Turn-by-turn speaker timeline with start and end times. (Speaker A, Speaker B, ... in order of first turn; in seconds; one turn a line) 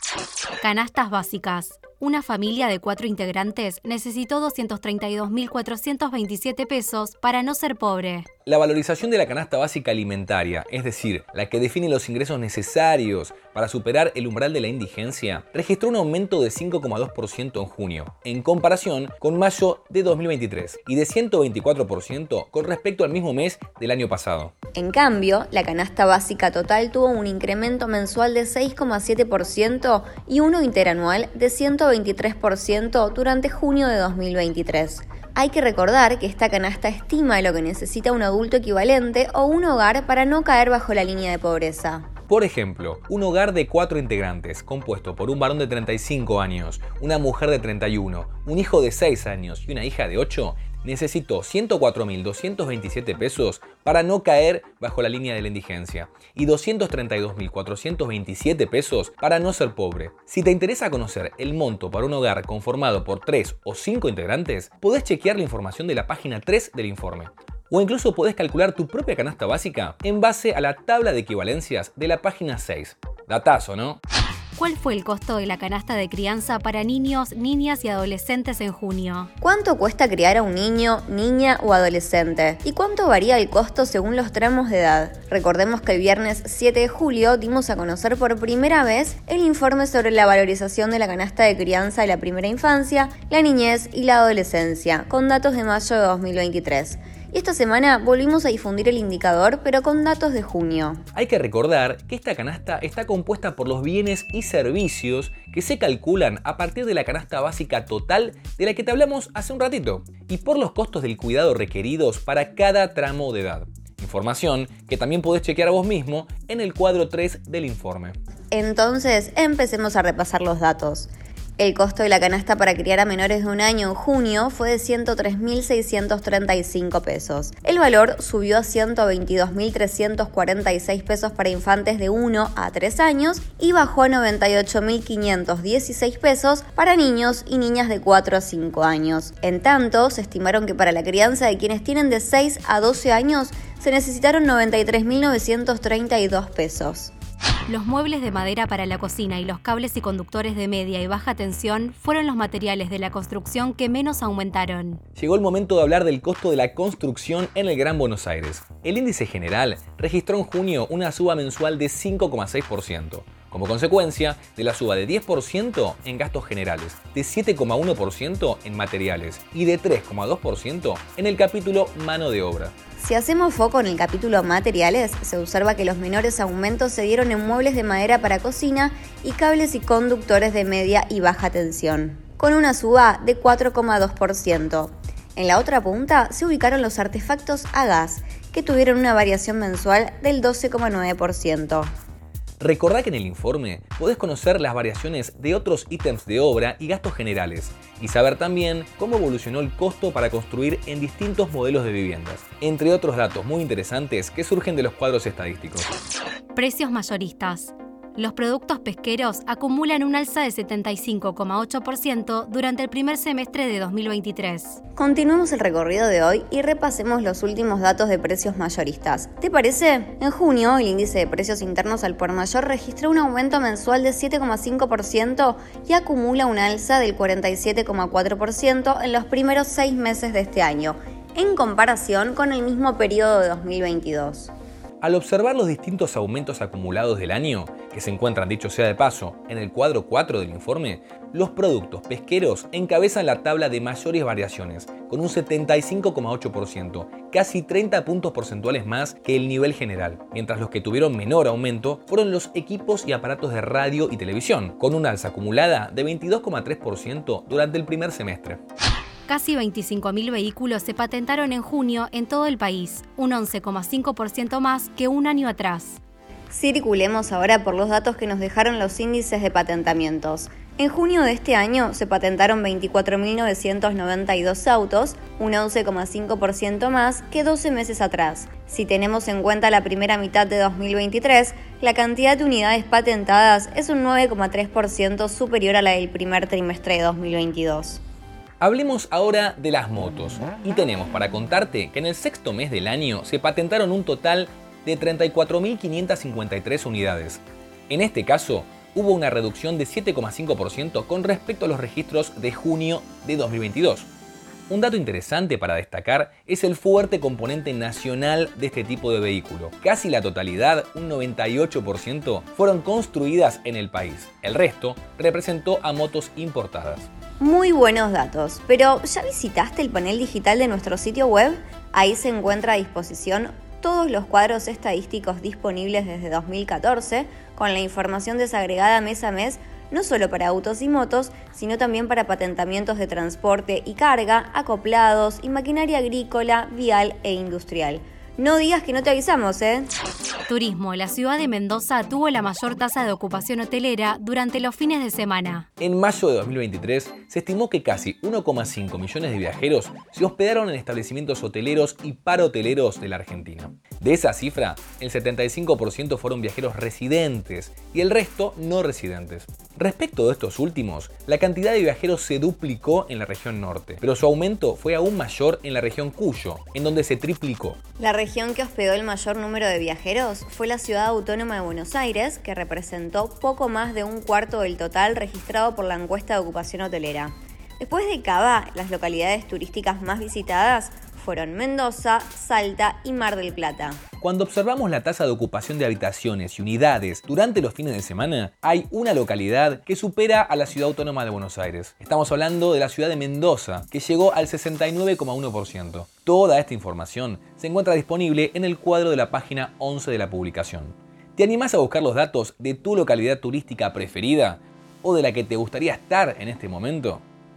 Speaker A: 0.6-8.3
Speaker B: 8.5-24.5
Speaker C: 24.8-42.1
Speaker B: 42.3-74.0
Speaker A: 74.6-79.3
Speaker C: 79.4-101.0
Speaker B: 101.2-118.2
Speaker C: 118.5-147.1
Speaker A: 147.7-155.0
Speaker B: 155.2-172.7
Speaker C: 173.0-191.9
Speaker B: 192.6-205.9
Speaker A: 206.6-214.8
Speaker C: 215.0-234.5
Speaker B: 235.0-258.6
Speaker A: 259.3-266.0
Speaker C: 266.5-288.0
Speaker B: 288.6-304.1
Speaker B: 304.7-317.1
Speaker C: 317.4-339.9
Speaker A: 340.5-345.7
Speaker B: 345.8-367.8
Speaker C: 368.0-384.0
Speaker B: 384.2-407.2